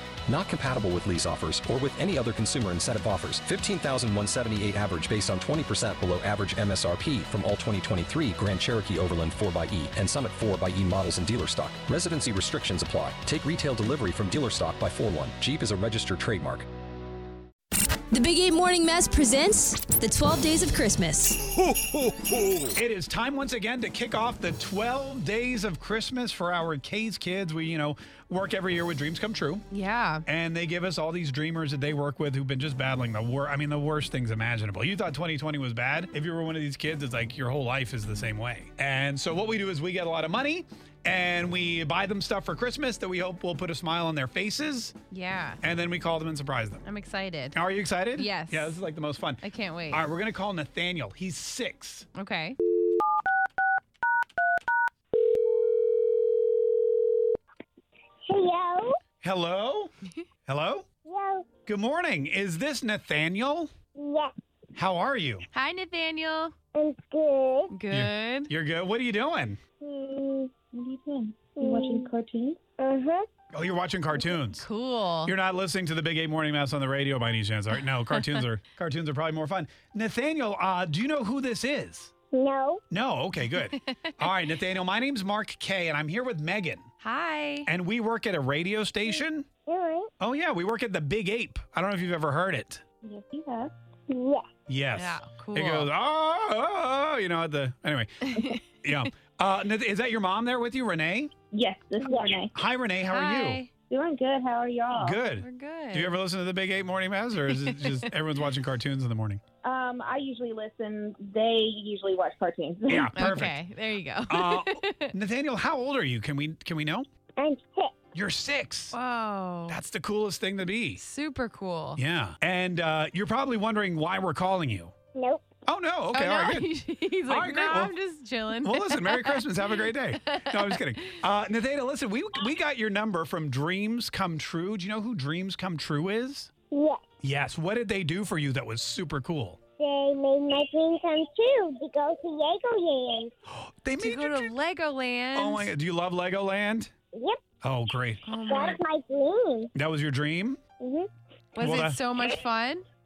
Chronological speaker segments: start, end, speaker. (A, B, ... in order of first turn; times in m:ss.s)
0:00.3-0:16.7 A
0:18.1-0:21.4 B
0:22.7-0:29.6 C
0:29.7-0:30.2 D
0:30.2-0:44.9 C
0:45.1-0:45.6 D
0:45.6-0:46.8 C
0:46.8-0:47.6 D
0:47.5-0:52.1 C
0:48.1-0:48.8 D
0:49.4-0:50.0 D
0:52.1-0:52.6 D
0:58.3-0:59.0 E
0:59.2-0:59.9 C
1:00.5-1:00.8 C
1:01.0-1:01.5 E
1:01.6-1:03.7 C
1:04.0-1:04.3 E
1:04.8-1:05.4 C
1:05.5-1:06.5 D
1:06.7-1:07.7 E
1:07.7-1:08.5 D
1:07.9-1:09.6 C
1:09.8-1:10.5 E
1:10.7-1:12.6 F
1:11.6-1:12.1 E
1:12.8-1:13.3 E
1:13.5-1:14.6 C
1:14.5-1:15.3 D
1:15.2-1:22.1 C
1:18.1-1:18.4 D
1:22.3-1:22.8 E
1:22.9-1:26.9 C
1:27.0-1:27.7 D
1:27.6-1:29.5 C
1:29.7-1:30.1 E
1:30.2-1:32.8 C
1:33.0-1:33.7 F
1:34.1-1:34.4 E
1:34.7-1:41.3 C
1:34.9-1:35.9 D
1:38.3-1:38.6 D
1:41.5-1:42.5 F
1:42.0-1:42.4 E
1:42.5-1:43.6 C
1:43.0-1:43.7 D
1:43.9-1:45.2 F
1:45.0-1:49.4 C
1:45.4-1:46.2 D
1:47.5-1:48.1 D
1:49.6-1:53.2 F
1:52.9-1:53.6 C
1:53.1-1:55.1 D
1:54.3-1:57.0 C
1:57.4-1:57.9 E
1:58.1-1:58.9 C
1:58.9-1:59.8 D
1:59.7-2:01.0 C
2:01.0-2:02.0 D
2:02.0-2:04.9 C
2:05.1-2:05.5 E
2:05.6-2:06.7 C
2:06.1-2:11.2 D
2:07.3-2:07.9 C
2:08.6-2:16.5 C
2:16.7-2:17.0 E
2:17.2-2:19.6 C
2:19.8-2:23.3 E
2:23.6-2:24.5 C
2:24.0-2:25.7 D
2:25.3-2:26.9 C
2:27.1-2:27.4 E
2:27.6-2:28.2 C
2:28.2-2:28.8 D
2:28.5-2:29.7 E
2:29.7-2:30.6 C
2:30.8-2:31.1 E
2:31.5-2:32.8 D
2:31.6-2:32.0 C